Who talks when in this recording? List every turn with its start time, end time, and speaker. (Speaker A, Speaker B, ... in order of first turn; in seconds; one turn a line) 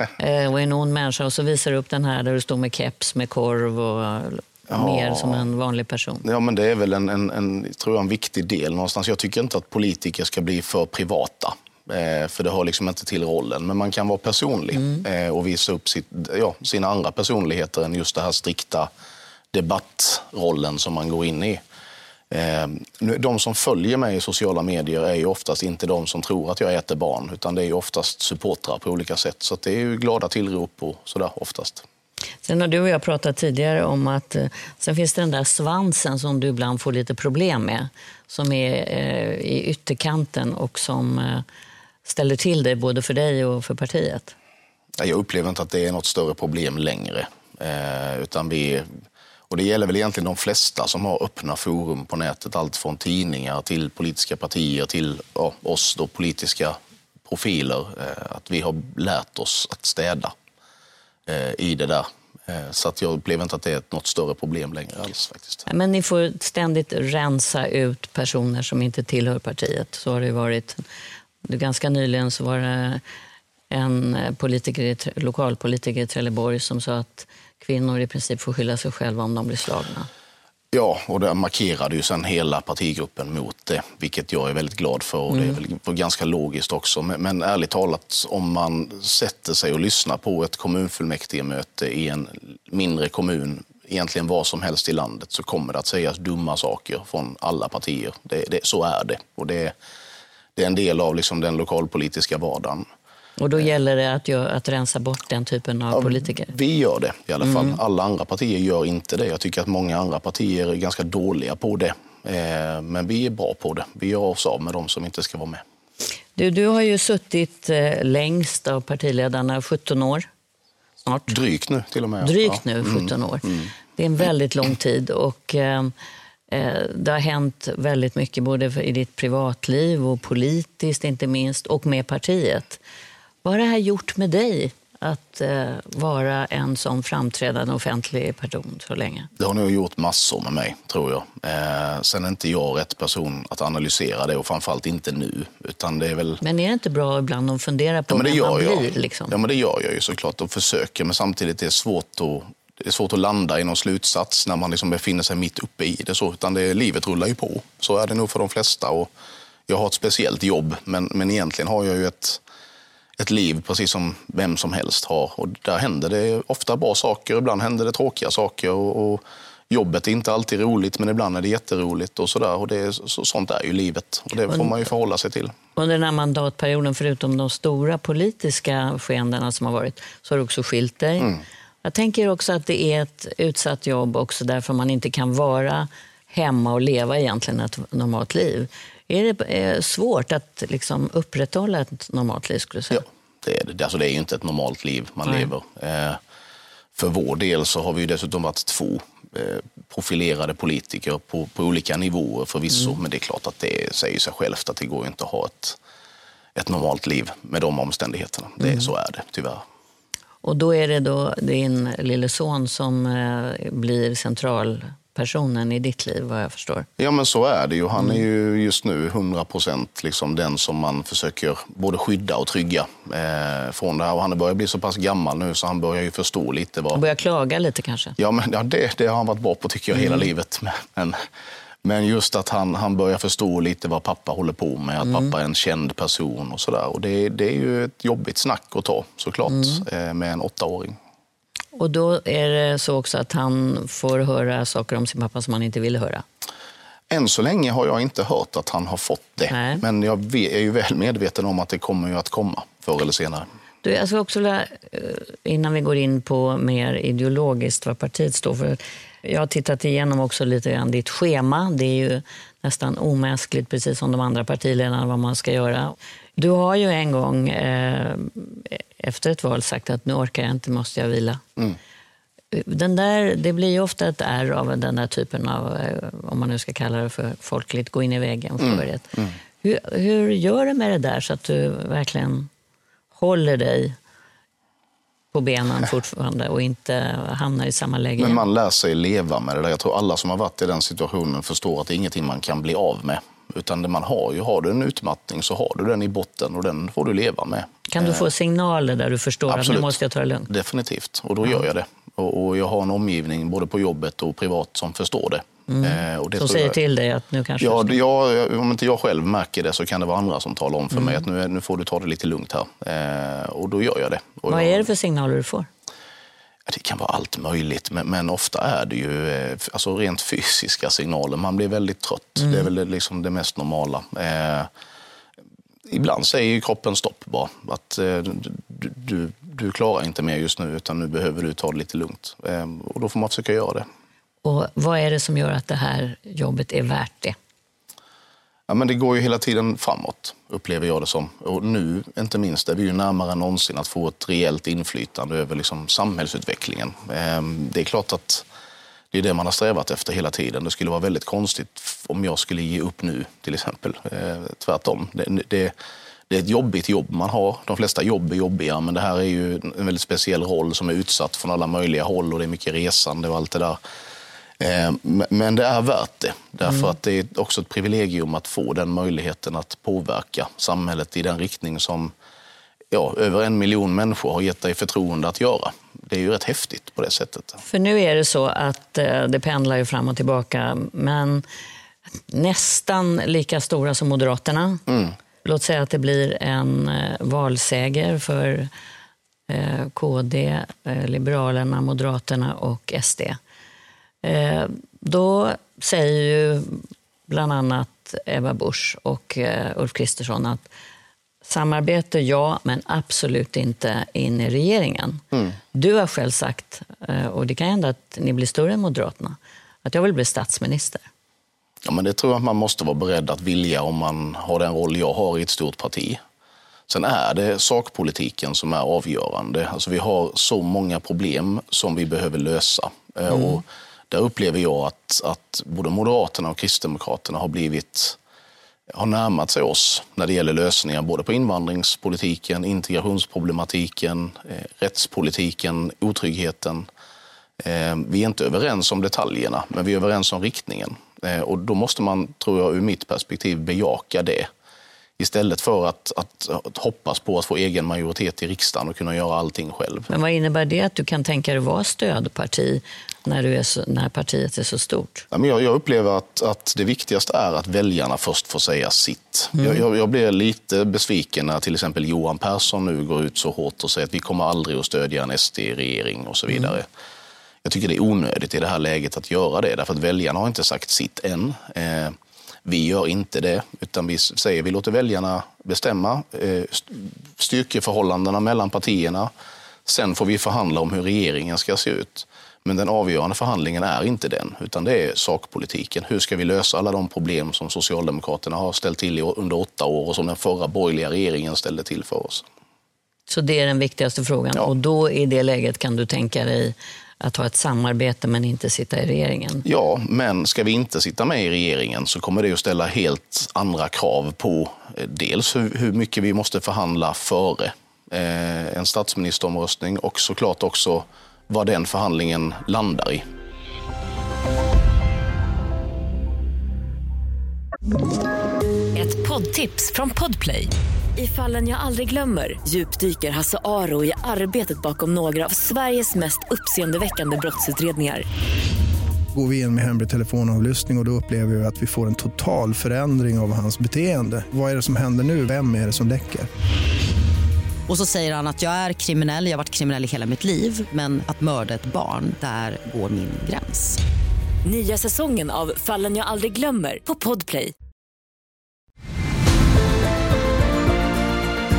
Speaker A: 0.2-6.2
Speaker B: 4.7-5.5
Speaker B: 6.2-18.9
Speaker A: 14.8-15.0
Speaker B: 19.5-21.6
Speaker B: 22.3-31.9
Speaker A: 32.4-41.4
Speaker A: 42.0-44.3
Speaker B: 45.0-48.9
Speaker B: 49.5-60.3
Speaker B: 61.3-65.6
Speaker A: 65.7-70.8
Speaker A: 71.5-73.0
Speaker A: 73.7-80.1
Speaker B: 80.7-99.8
Speaker A: 85.3-85.6
Speaker B: 100.6-102.9
Speaker A: 103.4-106.5
Speaker B: 105.9-115.6
Speaker A: 107.4-107.8
Speaker A: 116.4-120.3
Speaker A: 121.0-121.4
Speaker B: 121.3-123.7
Speaker A: 122.2-125.9
Speaker A: 126.5-132.8
Speaker A: 133.4-139.3
Speaker B: 139.4-146.4
Speaker A: 146.4-149.4
Speaker B: 148.1-159.1
Speaker B: 159.7-162.4
Speaker B: 163.2-175.6
Speaker A: 174.5-174.8
Speaker A: 175.8-181.3
Speaker A: 181.8-193.1
Speaker B: 192.9-196.2
Speaker B: 196.9-205.8
Speaker B: 206.6-209.6
Speaker A: 208.6-208.9
Speaker A: 210.4-216.9
Speaker B: 217.0-227.0
Speaker A: 226.9-228.2
Speaker B: 228.2-231.2
Speaker A: 230.0-230.3
Speaker B: 231.8-241.0
Speaker A: 235.0-235.3
Speaker A: 239.5-239.8
Speaker A: 241.8-246.2
Speaker B: 247.1-253.5
Speaker A: 249.5-249.8
Speaker A: 253.8-271.4
Speaker A: 272.5-282.5
Speaker B: 278.6-279.4
Speaker A: 283.2-284.0
Speaker A: 285.3-288.4
Speaker B: 288.2-298.3
Speaker A: 297.9-300.5
Speaker B: 299.5-306.8
Speaker A: 305.7-308.0
Speaker B: 307.6-314.9
Speaker A: 314.5-315.7
Speaker B: 316.7-324.7
Speaker A: 322.4-322.7
Speaker B: 325.9-333.9
Speaker A: 334.4-337.4
Speaker B: 338.7-348.4
Speaker B: 349.1-355.7
Speaker B: 356.3-363.8
Speaker B: 364.6-372.1
Speaker B: 372.9-377.6
Speaker A: 377.7-381.4
Speaker A: 382.3-384.8
Speaker B: 384.9-385.1
Speaker A: 385.4-388.7
Speaker A: 389.5-393.4
Speaker A: 394.2-400.7
Speaker A: 401.4-405.2
Speaker A: 405.7-411.1
Speaker B: 411.8-416.2
Speaker B: 416.9-428.2
Speaker A: 423.3-423.6
Speaker B: 428.9-436.9
Speaker B: 437.6-444.5
Speaker B: 445.2-450.1
Speaker A: 450.1-455.3
Speaker B: 455.3-466.9
Speaker B: 467.6-479.3
Speaker B: 479.9-492.4
Speaker A: 493.3-499.6
Speaker B: 499.6-513.3
Speaker C: 518.9-528.3
Speaker D: 529.3-536.5
Speaker E: 537.9-544.0
Speaker C: 544.6-547.7